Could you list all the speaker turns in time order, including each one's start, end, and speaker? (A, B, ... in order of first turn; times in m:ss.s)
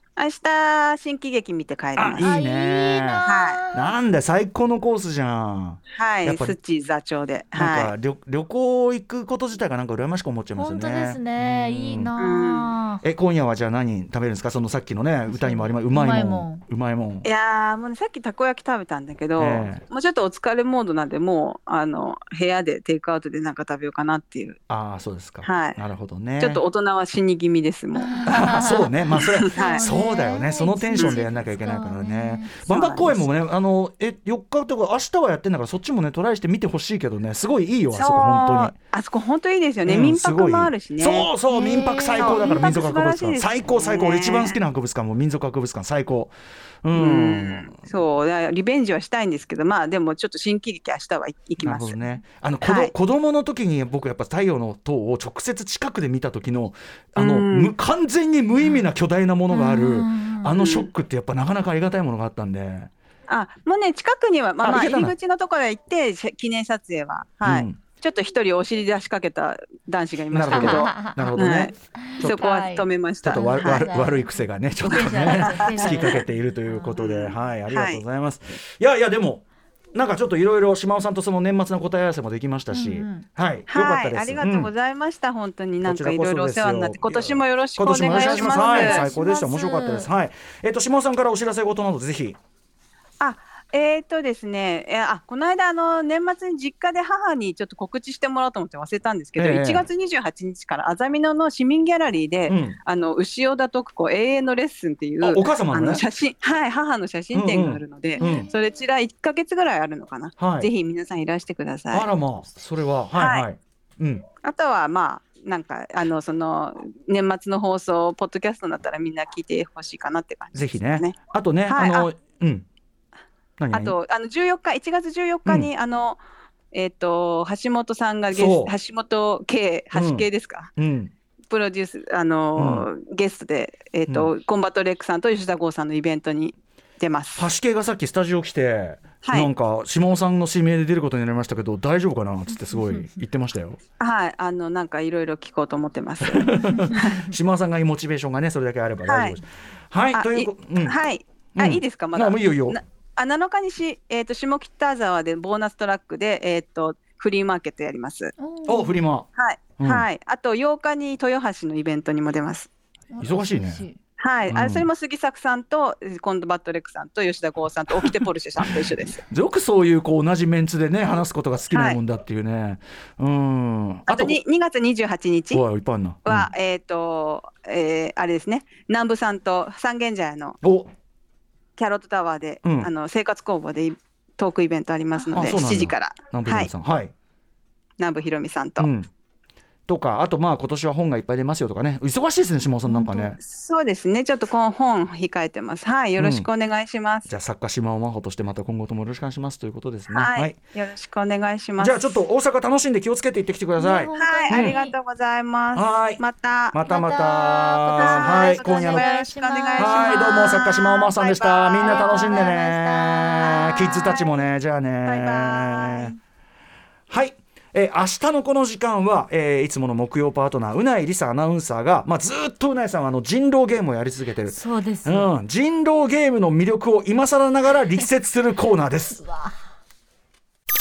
0:00.2-0:02.3 A
0:02.0-0:06.6 B
0:02.2-0:03.9 C
0:03.2-0:03.6 A
0:05.9-0:07.9 A
0:07.6-0:12.1 B
0:10.6-0:13.0 C
0:12.2-0:12.7 A
0:13.0-0:17.3 B
0:15.3-0:16.6 C
0:17.2-0:24.6 A
0:19.4-0:19.8 B
0:24.7-0:26.6 B
0:25.4-0:25.8 A
0:26.4-0:28.3 A
0:27.9-0:32.6 C
0:28.3-0:38.7 B
0:29.2-0:29.8 A
0:31.0-0:31.2 A
0:32.7-0:33.2 A
0:37.9-0:41.3 A
0:39.8-0:47.8 B
0:41.5-0:42.6 C
0:42.2-0:44.6 A
0:46.9-0:52.0 A
0:51.6-1:02.9 B
0:52.6-0:52.9 A
0:57.2-0:57.8 A
0:59.5-1:00.5 C
1:00.5-1:00.9 A
1:03.3-1:13.9 A
1:04.6-1:05.1 B
1:07.4-1:07.8 B
1:10.3-1:12.5 B
1:10.5-1:11.4 C
1:12.0-1:14.3 C
1:13.2-1:24.7 B
1:14.8-1:17.0 C
1:14.9-1:16.2 A
1:17.0-1:18.0 A
1:22.7-1:23.3 C
1:23.7-1:29.1 A
1:25.8-1:32.4 B
1:28.0-1:30.1 C
1:33.2-1:52.1 A
1:39.4-1:39.9 B
1:42.5-1:42.8 B
1:45.2-1:46.0 B
1:47.3-1:48.5 B
1:48.2-1:48.4 C
1:50.4-1:50.7 B
1:51.9-1:54.2 B
1:53.1-1:53.4 A
1:54.4-2:02.1 A
2:00.5-2:02.6 B
2:03.6-2:04.0 B
2:03.7-2:06.2 A
2:06.7-2:10.7 A
2:08.3-2:08.7 B
2:09.9-2:11.1 B
2:11.5-2:17.5 A
2:12.6-2:12.9 B
2:14.1-2:14.3 B
2:17.4-2:23.8 B
2:19.2-2:19.5 A
2:24.0-2:27.3 A
2:26.2-2:31.0 B
2:29.1-2:29.4 A
2:30.1-2:38.3 A
2:31.6-2:32.8 B
2:38.4-2:38.9 C
2:38.6-2:40.1 B
2:39.4-2:42.7 A
2:43.1-2:44.0 C
2:43.2-2:43.8 B
2:44.2-2:49.2 A
2:44.5-2:44.9 B
2:47.9-2:54.4 B
2:51.7-2:52.0 A
2:54.1-2:55.6 A
2:55.5-2:56.5 B
2:56.2-3:00.6 A
3:00.6-3:00.9 B
3:01.8-3:06.7 A
3:02.6-3:02.9 B
3:05.3-3:07.1 B
3:08.0-3:08.9 A
3:08.8-3:09.1 B
3:09.9-3:13.4 B
3:12.9-3:13.3 C
3:13.4-3:17.3 A
3:16.2-3:16.5 B
3:17.3-3:20.6 B
3:20.1-3:22.2 A
3:21.8-3:24.8 B
3:23.8-3:24.9 C
3:24.1-3:26.8 A
3:25.7-3:29.1 B
3:26.9-3:30.7 C
3:27.9-3:32.5 A
3:29.8-3:36.1 B
3:31.8-3:33.8 C
3:33.4-3:34.4 A
3:35.0-3:36.2 A
3:37.1-3:49.2 B
3:44.5-3:45.3 C
3:49.2-3:49.6 C